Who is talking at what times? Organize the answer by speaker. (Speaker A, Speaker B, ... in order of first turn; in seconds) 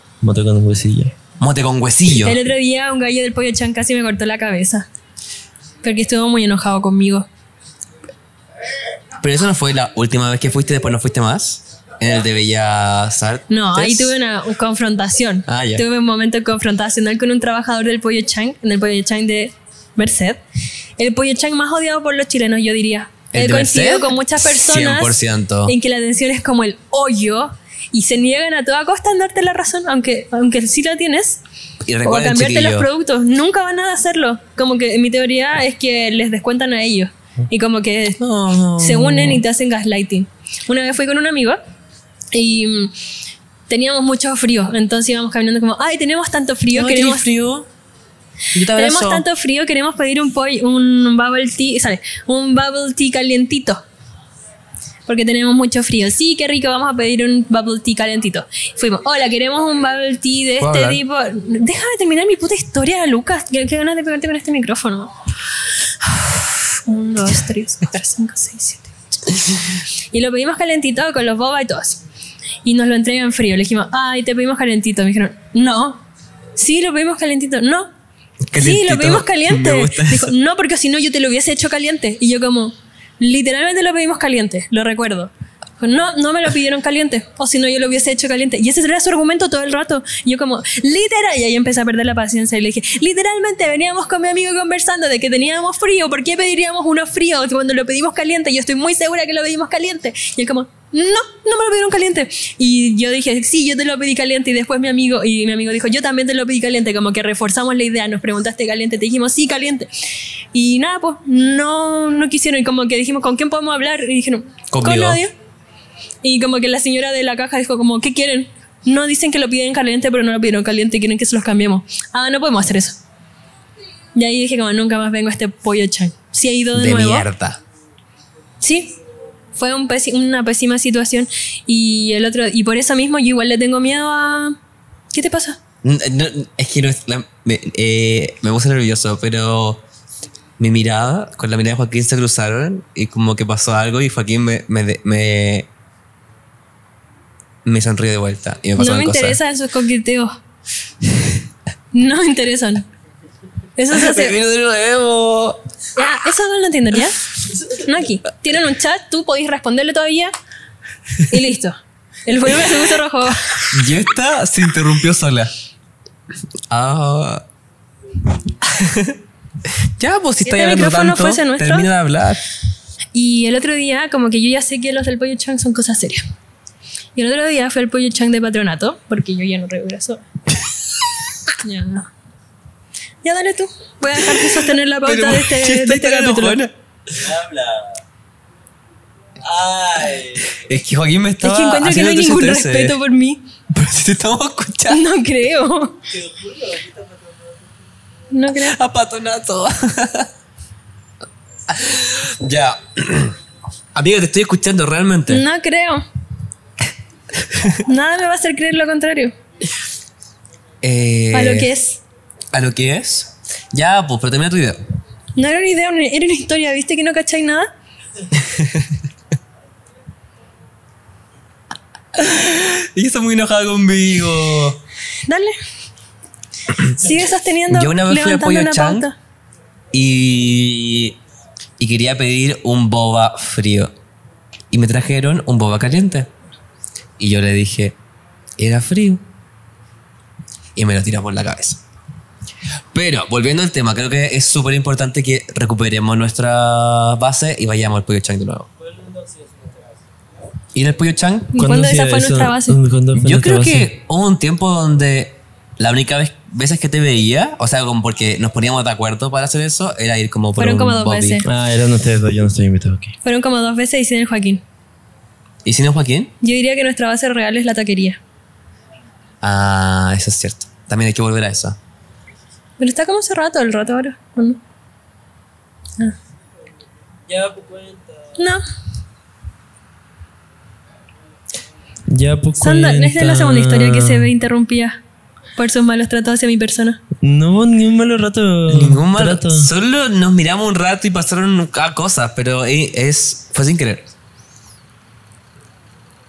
Speaker A: 0.2-1.1, 187.2-188.0, 189.4-190.6, 196.1-197.4, 248.9-249.7, 251.6-253.9, 261.4-263.1, 277.3-278.1, 282.1-284.3, 287.2-289.7
Speaker B: 1.4-2.4, 9.2-14.1, 15.5-15.8, 23.3-25.8, 31.9-32.9, 38.2-39.4, 46.7-47.7, 48.5-49.2, 60.6-61.0, 78.5-80.3, 114.7-115.2, 126.7-127.6, 135.8-139.8, 140.6-145.7, 147.6-149.4, 153.9-155.6, 163.7-165.5, 166.7-167.4, 168.6-172.4, 184.2-186.7, 190.4-193.0, 193.7-195.0, 198.5-200.3, 201.7-203.3, 203.9-205.4, 207.4-207.8, 210.8-211.7, 212.5-214.8, 218.3-218.9, 222.1-224.8, 227.7-229.1, 229.9-231.2, 231.8-233.9, 234.7-236.3, 237.2-238.0, 238.6-239.2, 240.7-241.8, 242.9-248.7, 250.7-251.6, 253.1-261.4, 265.6-266.3, 269.4-271.8, 288.7-294.1
Speaker C: 2.1-4.9, 5.8-7.2, 13.5-20.4, 21.0-31.4, 32.0-38.2, 38.8-41.6, 42.3-42.9, 43.7-47.3, 48.7-53.8, 55.1-65.1, 66.0-69.4, 70.1-72.0, 72.6-76.0, 76.5-77.9, 78.5-115.3, 116.2-123.0, 124.1-127.3, 128.6-128.9, 129.6-134.6, 135.1-135.6, 148.8-150.4, 151.9-152.8, 153.8-154.3, 155.9-160.3, 161.2-163.7, 170.4-171.9, 173.1-176.2, 177.2-180.2, 181.6-182.1, 183.2-186.6, 191.4-193.4, 194.9-196.0, 198.3-198.8, 205.3-206.0, 207.8-209.3, 211.3-212.0, 215.3-217.7, 225.2-225.6, 226.8-229.1, 251.5-252.8, 260.6-261.5, 263.2-264.6, 266.4-268.2, 272.8-274.6, 278.4-278.6, 282.6-285.0, 285.6-287.0